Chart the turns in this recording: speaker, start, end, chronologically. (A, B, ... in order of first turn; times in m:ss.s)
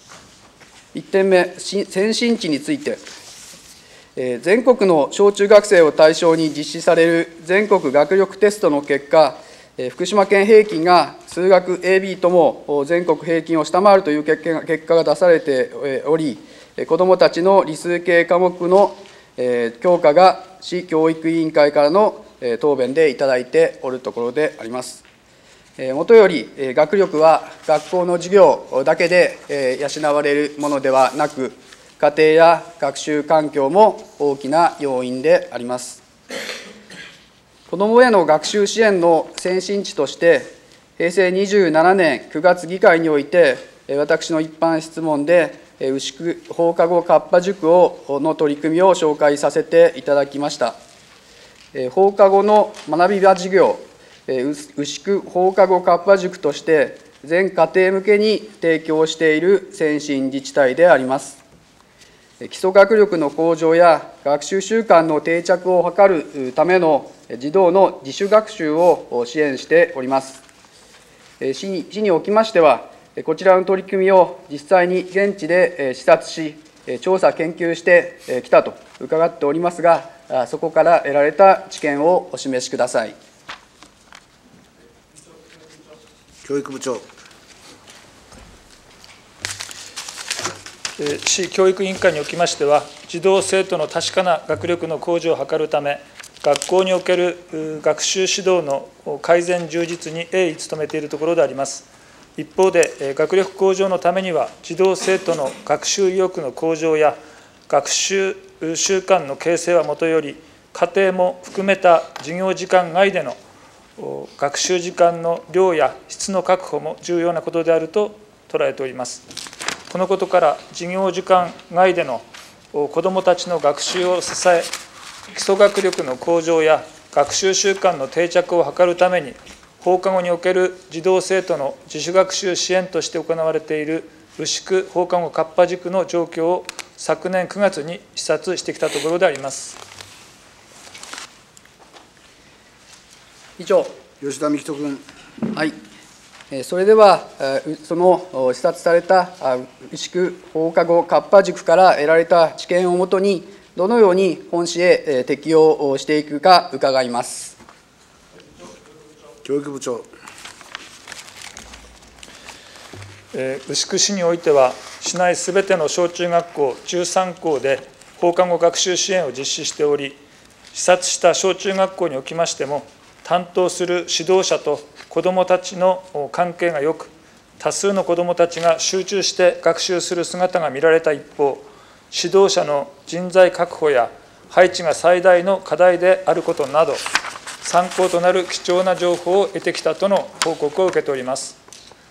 0:00.9-0:03.0 A
0:04.2-0:25.0 A
0:25.8-0:36.0 A
0:37.7-0:50.8 A
0:51.7-1:01.4 A
1:02.4-1:10.4 A
1:11.4-1:23.2 A
1:26.4-1:27.0 B
1:31.0-1:47.2 C
1:47.7-1:53.4 C
1:54.0-1:59.2 C
1:59.9-2:04.7 C
2:05.3-2:19.8 C
2:23.6-2:23.9 A
2:24.2-2:25.0 B
2:26.5-2:37.6 A
2:39.4-2:40.1 B
2:43.3-2:50.2 C
2:50.7-3:07.0 C
3:07.6-3:11.6 C